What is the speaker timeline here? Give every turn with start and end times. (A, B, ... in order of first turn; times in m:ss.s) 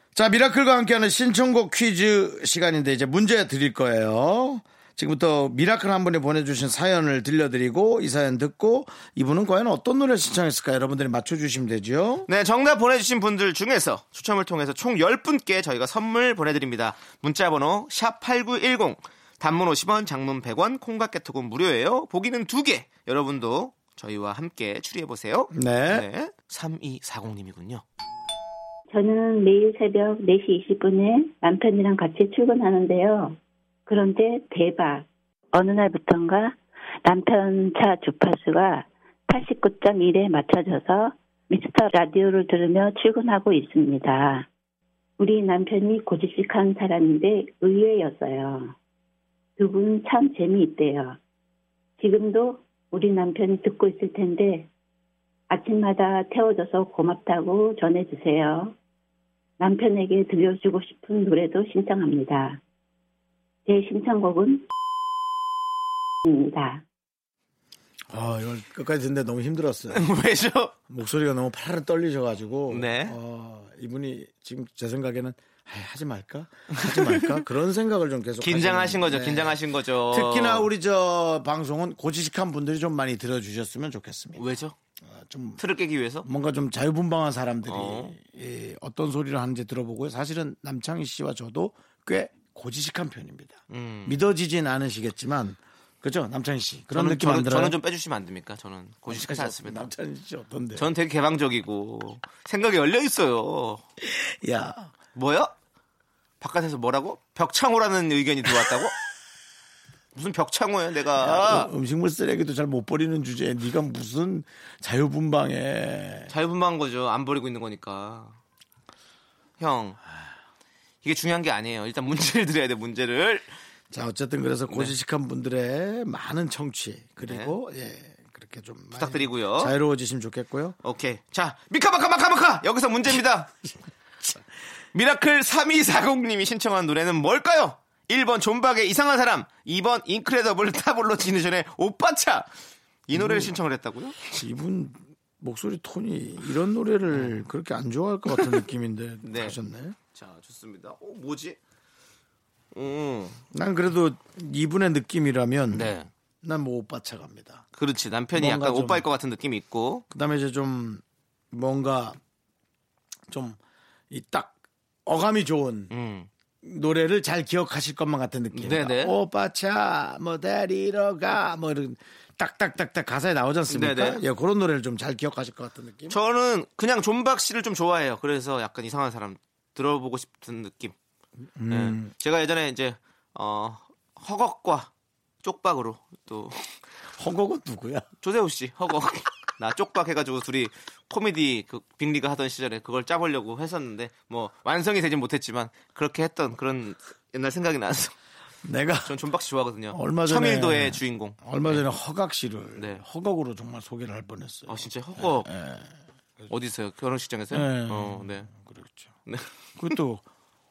0:00.1-0:12.3 A
0:12.3-0:27.8 B
0:25.5-0:26.0 A
0:28.9-0:44.4 C
0:45.2-0:48.7 C
0:49.6-0:51.2 C
0:52.0-0:54.7 C
0:55.5-0:58.7 C
0:59.6-1:02.6 C
1:03.6-1:04.6 C
1:06.2-1:06.8 C
1:08.1-1:10.1 A
1:09.9-1:10.7 B
1:10.9-1:24.4 A
1:12.7-1:13.2 B
1:16.7-1:17.4 B
1:18.4-1:20.7 B
1:24.4-1:24.8 B
1:25.0-1:25.6 A
1:25.6-1:26.3 B
1:26.2-1:37.8 A
1:27.7-1:28.2 B
1:33.7-1:34.2 B
1:36.9-1:39.9 B
1:39.1-1:40.9 A
1:40.8-1:43.8 B
1:44.0-1:44.9 A
1:45.1-1:45.5 B
1:46.4-1:49.0 B
1:50.1-1:51.7 B
1:51.2-1:56.3 A
1:56.3-1:58.4 B
1:59.6-2:00.0 B
2:01.0-2:03.5 B
2:03.9-2:10.8 A
2:07.2-2:07.5 B
2:09.0-2:09.7 B
2:10.8-2:13.5 B
2:14.9-2:22.5 B
2:23.1-2:24.3 B
2:23.1-2:23.5 A
2:24.3-2:30.0 A
2:27.1-2:27.4 B
2:29.2-2:29.6 B
2:30.1-2:31.6 B
2:32.7-2:33.4 B
2:33.5-2:37.6 A
2:35.7-2:36.1 B
2:37.7-2:40.0 B
2:38.4-2:39.0 A
2:40.1-2:42.2 A
2:43.3-2:44.5 A
2:45.0-2:45.9 A
2:45.9-2:46.3 B
2:46.6-2:56.2 A
2:48.5-2:49.2 B
2:53.7-2:54.2 B
2:56.1-3:01.0 B
3:01.6-3:02.1 A
3:01.7-3:04.9 B
3:05.4-3:06.7 B
3:07.2-3:08.1 A
3:08.2-3:18.1 B
3:18.6-3:19.1 A
3:19.0-3:21.8 B
3:19.9-3:26.5 A
3:22.8-3:23.0 B
3:24.7-3:25.5 B
3:26.5-3:28.5 B
3:27.5-3:29.1 A
3:29.3-3:29.5 B
3:29.8-3:30.2 A